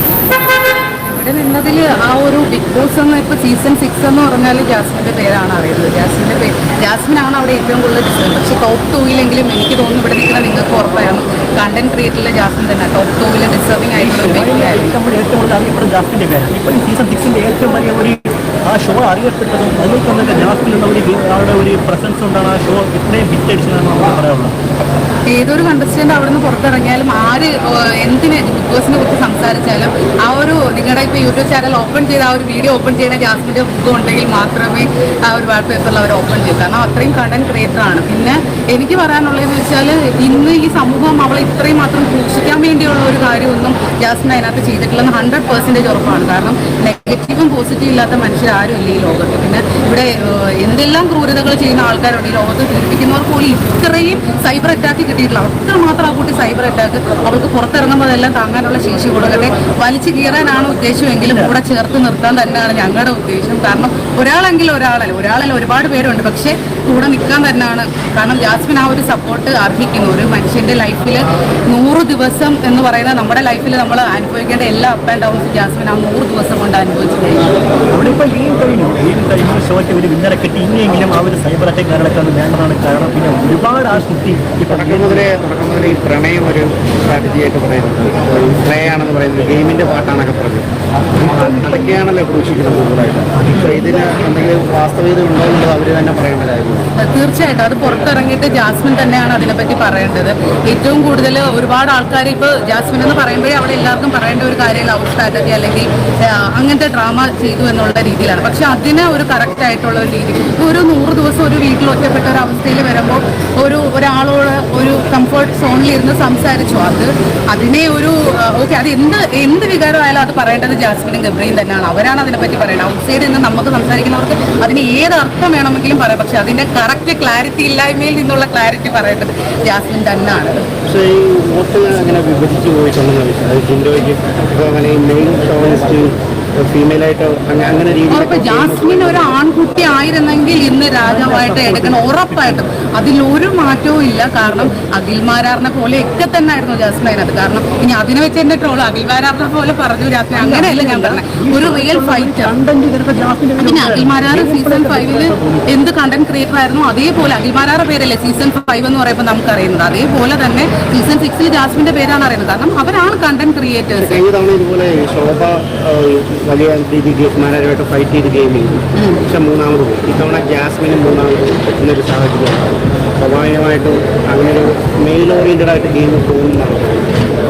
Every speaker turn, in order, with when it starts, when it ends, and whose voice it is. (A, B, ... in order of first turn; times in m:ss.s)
0:01.0-0:14.9 A
0:13.9-0:24.5 B
0:25.3-1:17.6 A
1:01.2-1:01.6 B
1:17.9-1:25.3 B
1:24.7-1:30.7 C
1:31.2-1:36.9 C
1:31.2-1:32.0 B
1:33.3-1:34.3 B
1:37.0-2:10.7 A
2:10.8-2:19.3 C
2:18.1-2:32.6 A
2:21.0-2:22.7 B
2:30.4-2:35.7 B
2:33.6-2:44.2 A
2:44.0-2:57.2 C
2:49.0-2:49.2 A